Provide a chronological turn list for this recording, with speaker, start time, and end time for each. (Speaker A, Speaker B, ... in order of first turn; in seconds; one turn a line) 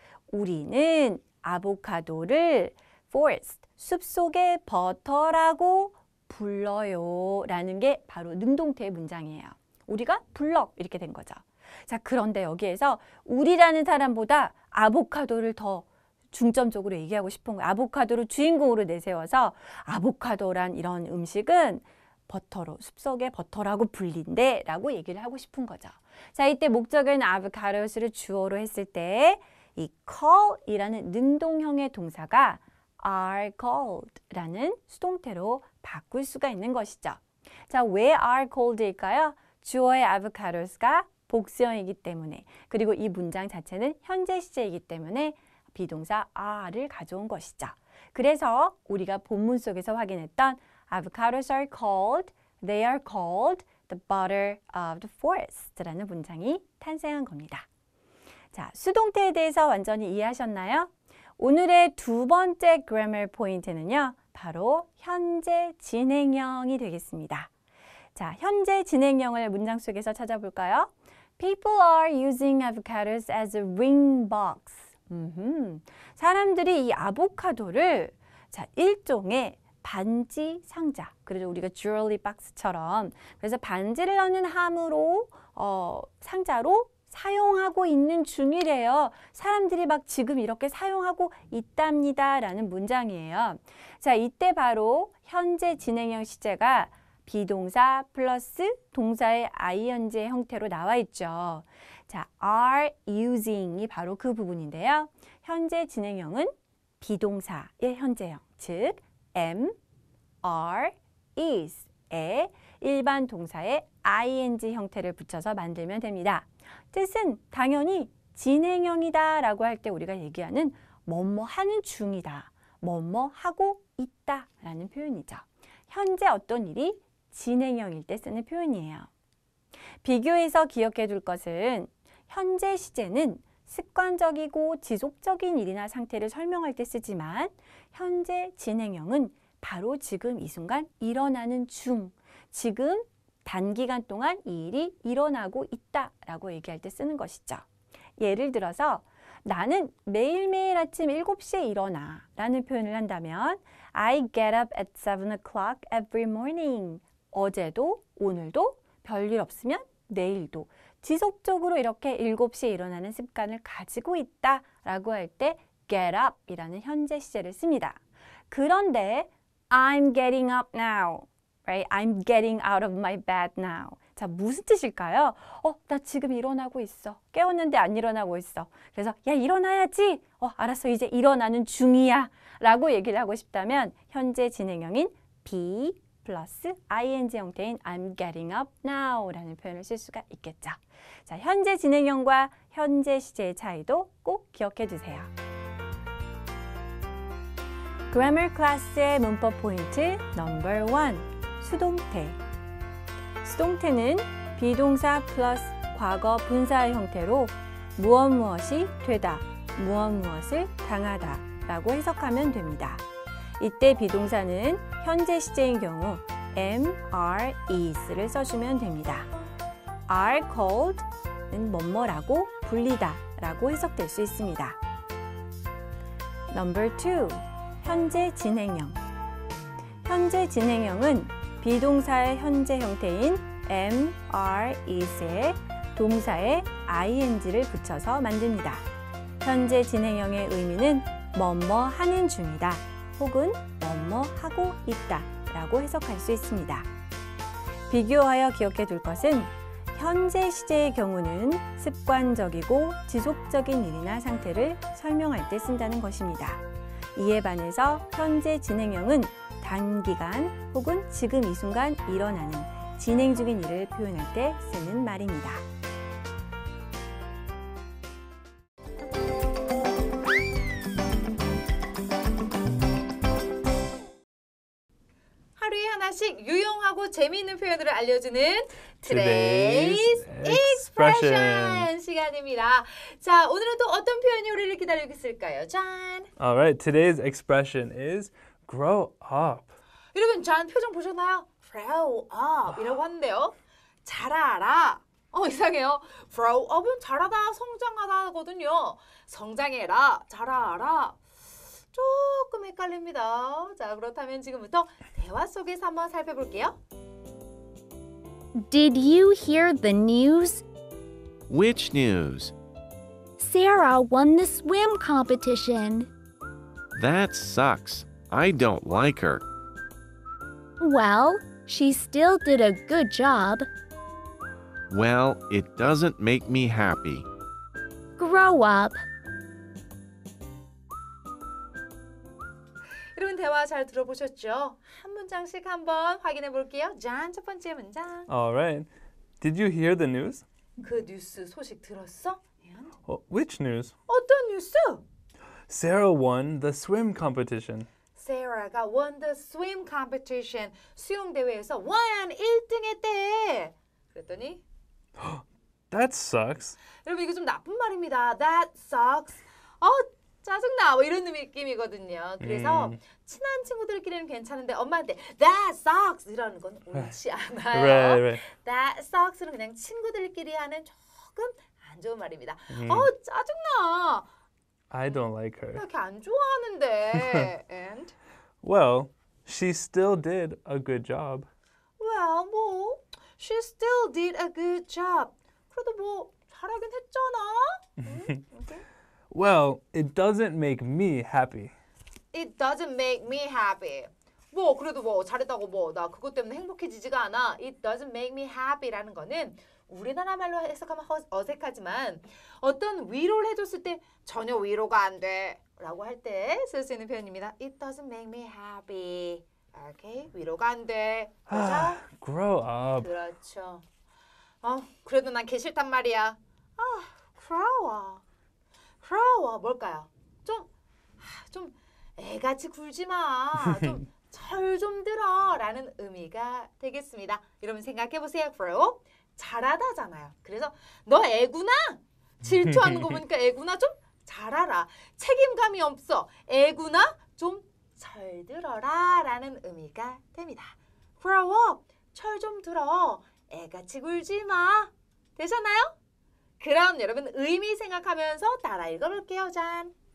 Speaker A: 0.3-57.7
Speaker A: 58.5-67.5
Speaker A: 68.1-109.8
Speaker A: 110.4-129.1
Speaker A: 130.0-147.6
Speaker A: 148.2-195.3
Speaker A: 198.1-202.4
Speaker A: 203.4-213.0
Speaker A: 213.6-219.3
Speaker A: 220.1-224.8
Speaker A: 226.5-229.0
Speaker A: 230.0-238.8
Speaker A: 239.4-246.9
Speaker A: 247.9-256.6
Speaker A: 257.1-265.6
Speaker B: 275.6-286.3
Speaker C: 279.0-281.9
Speaker C: 286.4-289.7
Speaker B: 290.1-301.2
Speaker B: 301.9-306.8
Speaker D: 308.5-310.6
Speaker E: 311.5-312.5
Speaker D: 313.4-316.1
Speaker E: 316.9-319.4
Speaker D: 320.8-323.6
Speaker E: 324.9-327.2
Speaker D: 328.2-329.0
Speaker B: 333.1-338.3
Speaker C: 338.3-338.9
Speaker C: 339.4-340.4
Speaker B: 340.8-342.9
Speaker C: 343.1-343.9
Speaker B: 344.1-345.0
Speaker C: 345.7-347.9
Speaker B: 348.1-354.6
Speaker C: 355.2-356.8
Speaker B: 357.0-374.3
Speaker C: 362.4-363.0
Speaker C: 367.7-368.4
Speaker C: 372.7-373.1
Speaker C: 374.9-375.8
Speaker B: 375.1-378.1
Speaker C: 378.6-381.5
Speaker B: 382.0-388.8
Speaker C: 389.3-391.7
Speaker B: 392.3-412.0
Speaker C: 411.5-413.1
Speaker B: 413.0-413.8
Speaker B: 414.6-418.2
Speaker B: 419.0-445.9
Speaker C: 432.4-433.2
Speaker B: 446.6-449.9